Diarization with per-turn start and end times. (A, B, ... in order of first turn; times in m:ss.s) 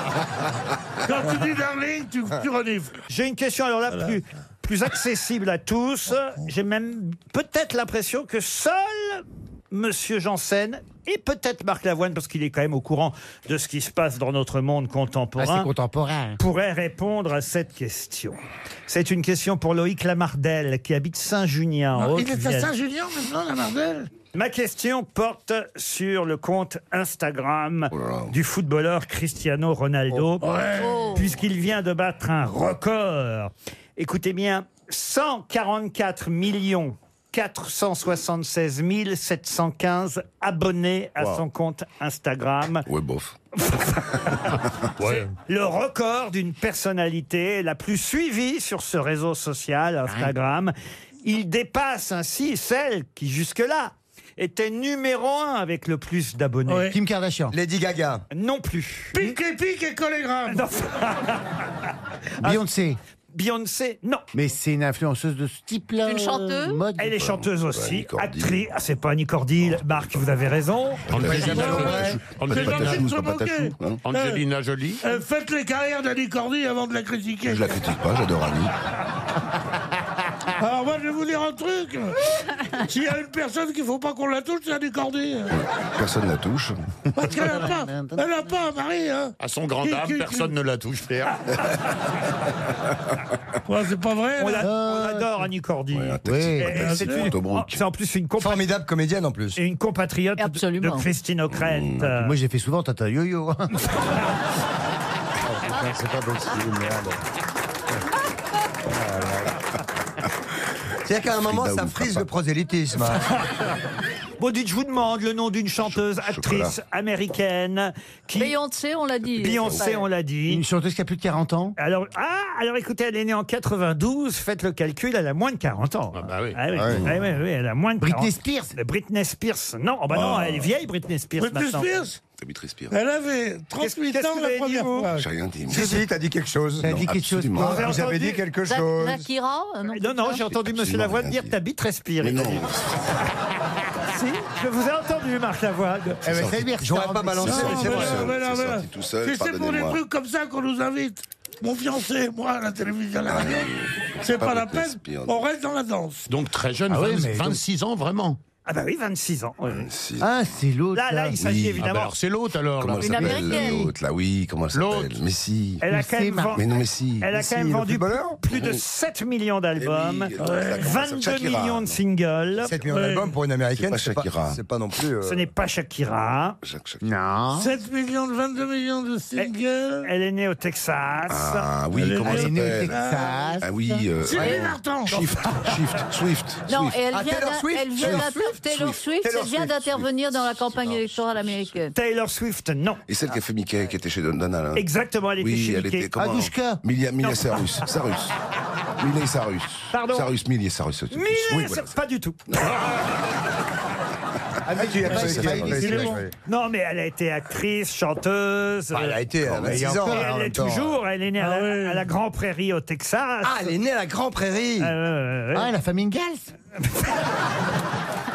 0:01.0-0:03.0 A
0:03.1-0:15.7 B
0:03.9-0:04.2 A
0:15.4-0:16.4 C
0:16.4-0:22.7 B
0:21.9-0:24.1 A
0:24.3-0:30.5 B
0:27.9-0:28.3 D
0:30.4-0:31.1 A
0:30.8-0:31.3 E
0:31.1-0:42.9 B
0:42.8-0:43.4 D
0:43.6-0:56.9 B
0:45.0-0:45.3 F
0:56.7-0:57.0 A
0:56.9-0:57.5 C
0:57.5-0:58.2 G
0:58.3-0:59.3 B
0:59.1-1:00.7 A
1:00.5-1:01.6 B
1:02.4-1:03.0 C
1:03.3-1:04.2 B
1:04.3-1:07.1 C
1:06.0-1:06.8 E
1:07.0-1:11.4 B
1:07.1-1:08.6 D
1:09.7-1:10.1 D
1:11.1-1:13.1 F
1:11.1-1:14.0 D
1:11.2-1:12.2 G
1:11.5-1:14.4 A
1:14.0-1:15.0 F
1:15.0-1:17.8 A
1:17.4-1:18.7 D
1:20.6-1:25.6 A
1:25.5-1:26.8 D
1:27.2-1:30.5 A
1:27.2-1:28.2 C
1:29.4-1:31.6 F
1:33.6-1:34.7 A
1:34.4-1:38.7 B
1:34.6-1:35.4 C
1:35.9-1:37.8 D
1:36.2-1:36.8 C
1:36.7-1:37.3 A
1:38.4-1:39.6 G
1:39.6-1:42.3 B
1:40.4-1:41.1 E
1:41.5-1:42.1 D
1:42.1-1:43.9 C
1:45.4-1:47.2 G
1:48.9-1:49.5 G
1:51.0-1:53.3 G
1:51.3-1:52.3 D
1:54.4-1:58.5 B
1:55.8-1:56.8 D
1:58.3-2:00.1 E
1:59.4-2:00.6 B
2:00.5-2:01.7 C
2:01.8-2:12.0 B
2:06.1-2:06.6 F
2:06.8-2:07.0 G
2:08.0-2:08.7 C
2:10.1-2:10.7 A
2:11.4-2:12.2 A
2:12.4-2:13.0 D
2:12.9-2:15.3 A
2:13.8-2:15.1 B
2:15.1-2:16.1 D
2:15.7-2:19.3 G
2:16.8-2:17.9 C
2:16.8-2:17.9 D
2:17.6-2:18.4 B
2:18.6-2:20.5 E
2:19.9-2:22.6 B
2:20.6-2:21.6 D
2:22.2-2:23.2 D
2:24.0-2:26.2 B
2:26.2-2:27.8 C
2:26.3-2:26.7 D
2:26.8-2:28.4 G
2:27.4-2:30.0 D
2:27.4-2:36.3 A
2:33.3-2:35.4 D
2:36.3-2:38.4 F
2:36.9-2:37.6 C
2:38.6-2:39.9 B
2:39.6-2:40.5 D
2:40.2-2:41.4 C
2:40.9-2:42.1 B
2:41.4-2:41.9 D
2:41.8-2:43.3 F
2:42.8-2:45.9 D
2:43.0-2:43.9 E
2:43.5-2:43.9 C
2:44.7-2:45.2 F
2:45.8-2:46.6 B
2:45.9-2:46.6 C
2:46.5-2:47.3 D
2:47.2-2:52.8 B
2:47.3-2:48.4 G
2:48.5-2:48.8 D
2:49.8-2:52.0 D
2:50.4-2:50.9 A
2:52.6-2:55.5 G
2:52.9-2:53.3 A
2:53.7-2:54.6 D
2:55.2-2:56.6 B
2:56.6-2:57.0 D
2:57.0-2:57.7 C
2:57.5-3:00.1 A
2:59.4-3:01.7 B
3:01.3-3:03.1 D
3:01.9-3:03.6 A
3:02.3-3:04.0 C
3:03.6-3:07.0 D
3:04.2-3:05.3 A
3:04.3-3:04.6 G
3:06.7-3:11.9 E
3:07.1-3:08.6 G
3:08.0-3:09.1 D
3:09.2-3:09.7 G
3:09.7-3:11.7 D
3:11.9-3:13.0 B
3:13.1-3:14.8 D
3:14.7-3:16.1 B
3:15.4-3:18.3 D
3:16.2-3:16.8 C
3:17.2-3:17.6 B
3:19.0-3:22.0 D
3:19.9-3:20.3 B
3:21.1-3:22.8 B
3:22.5-3:22.9 D
3:24.6-3:26.2 C
3:24.8-3:26.3 G
3:25.1-3:25.9 D
3:25.6-3:26.2 A
3:26.4-3:29.2 B
3:28.9-3:30.8 G
3:29.4-3:29.8 D
3:29.6-3:30.8 C
3:29.8-3:33.7 B
3:31.4-3:32.1 A
3:33.4-3:34.9 G
3:34.8-3:35.7 B
3:35.5-3:36.5 C